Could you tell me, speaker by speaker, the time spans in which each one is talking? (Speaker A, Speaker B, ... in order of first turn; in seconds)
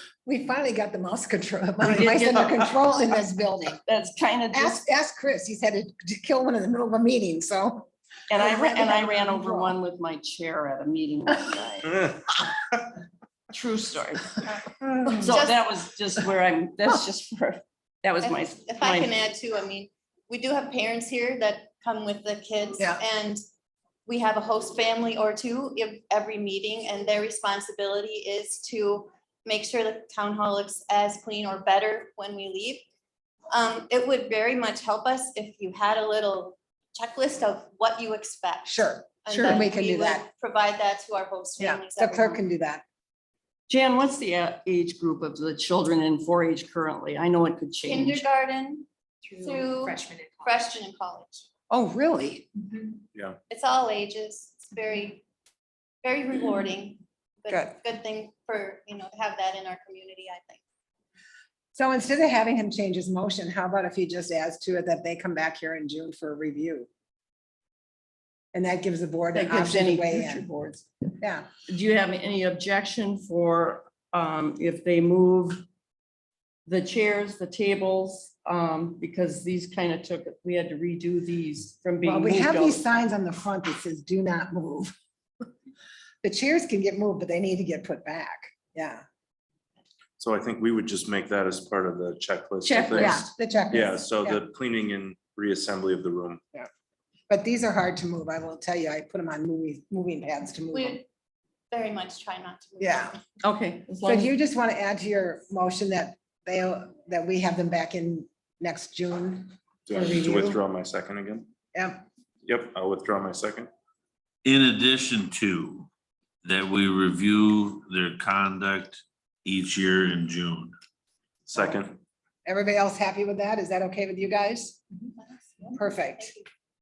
Speaker A: 0.2-3.8, 4.5-9.8, 14.8-15.3, 38.6-40.2, 41.6-42.8, 51.7-52.5, 57.5-57.7, 61.7-66.9, 68.5-70.5, 71.2-71.5, 82.0-84.9, 86.2-89.0, 92.6-94.4, 97.3-101.0, 102.8-103.1, 104.0-110.6, 111.7-112.0, 122.5-124.8, 125.7-126.3
Speaker B: 1.8-2.7, 3.9-4.8, 8.3-12.1, 13.5-14.4, 15.1-19.1, 43.7-48.2, 69.3-71.1, 71.6-75.7, 76.7-82.9, 103.4-104.3
Speaker C: 15.2-15.6, 18.2-23.4, 24.1-32.8, 33.5-42.4, 47.9-51.4, 53.5-55.2, 56.0-60.6, 100.7-101.0, 101.7-103.2, 125.3-126.5
Speaker D: 90.2-96.4, 109.9-111.5, 112.5-113.7, 121.5-122.0
Speaker E: 114.4-115.9, 116.4-120.7